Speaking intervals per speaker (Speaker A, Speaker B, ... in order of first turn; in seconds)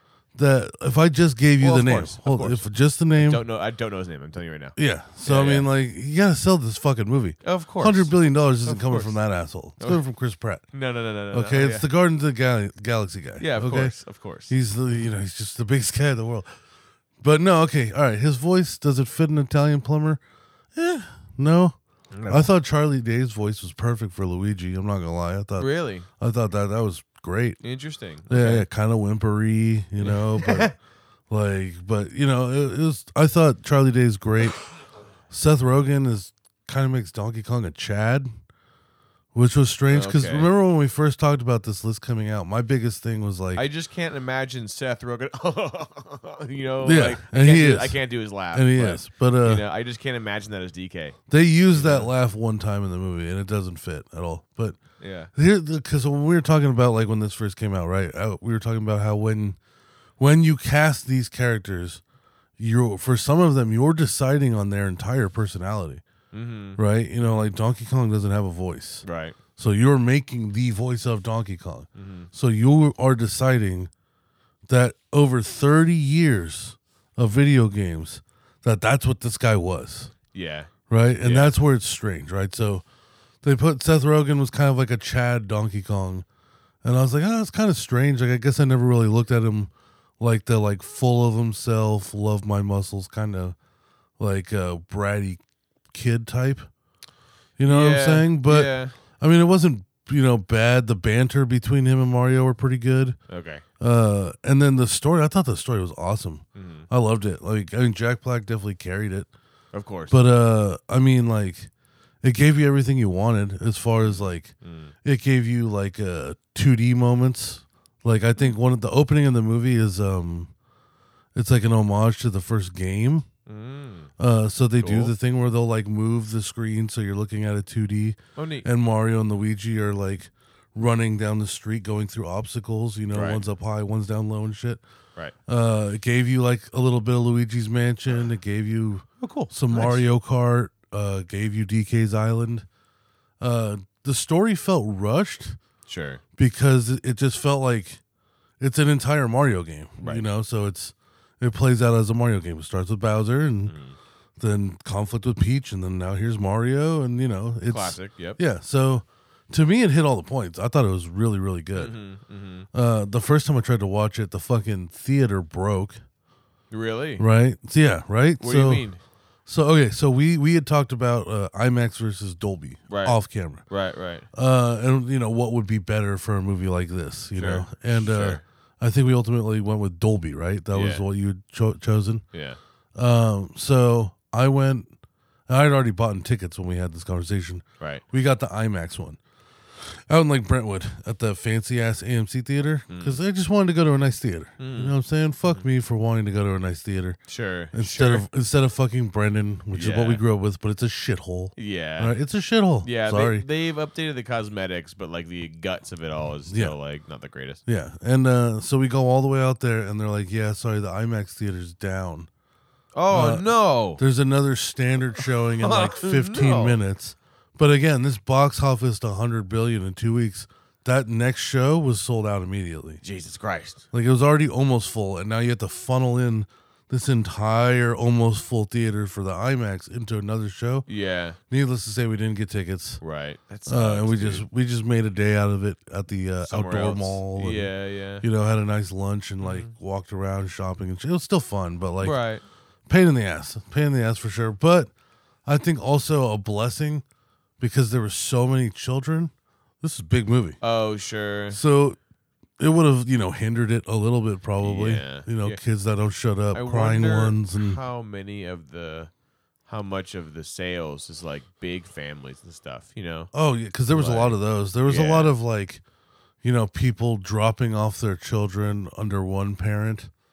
Speaker A: 0.3-3.4, 4.8-10.6, 11.3-13.9, 14.5-16.4, 17.2-20.2, 20.7-21.8, 22.3-27.6, 28.3-30.7, 31.3-34.6, 35.3-38.3, 39.3-43.6, 46.8-48.0, 48.5-49.6, 51.3-54.8, 55.3-59.6, 60.2-62.0, 62.6-66.0, 66.8-69.0, 69.5-73.9, 74.7-80.1, 80.9-82.8, 83.4-86.2, 86.8-93.5, 94.2-95.4, 95.9-96.7, 97.6-103.2, 103.8-109.3, 110.1-111.7, 112.2-114.5, 115.0-120.5, 121.3-123.2, 124.2-134.8, 135.5-142.7, 143.4-145.6, 146.4-148.0, 148.6-153.7, 154.4-161.9, 162.7-166.0, 167.2-168.8, 169.4-173.6, 174.3-182.2, 182.9-184.9, 185.5-189.2, 189.8-197.2, 197.7-203.4, 206.5-206.7, 207.7-212.3, 213.1-223.0, 223.9-230.8, 231.5-233.0, 233.7-242.2, 242.9-244.9, 245.4-247.0, 247.6-250.6, 251.5-252.0, 252.6-257.8, 263.3-265.8, 266.4-270.1
Speaker B: 1.6-2.6, 3.1-5.7, 7.4-8.1, 8.6-9.2, 10.7-11.9, 13.4-14.5, 22.1-22.5, 25.6-26.1, 27.6-28.7, 30.0-30.7, 39.9-40.5, 43.5-51.2, 51.7-52.1, 55.0-55.3, 66.3-67.4, 69.0-69.3, 72.0-72.3, 80.3-80.7, 81.2-81.5, 97.7-98.9, 103.3-103.6, 106.5-106.9, 109.7-110.2, 114.0-114.9, 123.5-124.1, 124.8-125.1, 128.3-128.7, 133.1-133.4, 139.2-140.0, 145.9-146.2, 150.0-150.2, 153.7-153.9, 157.7-158.4, 161.7-162.7, 166.7-167.2, 168.4-169.0, 172.9-174.2, 177.3-178.4, 180.7-181.0, 182.3-182.6, 192.9-193.2, 194.6-194.9, 197.3-198.2, 199.7-200.2, 201.6-202.1, 202.8-207.6, 212.9-214.0, 215.4-216.8, 223.0-223.8, 230.9-231.4, 233.0-234.4, 236.4-238.2, 239.4-239.7, 242.0-242.4, 250.6-251.6, 254.6-255.6, 256.5-259.1, 259.7-263.3, 263.9-265.3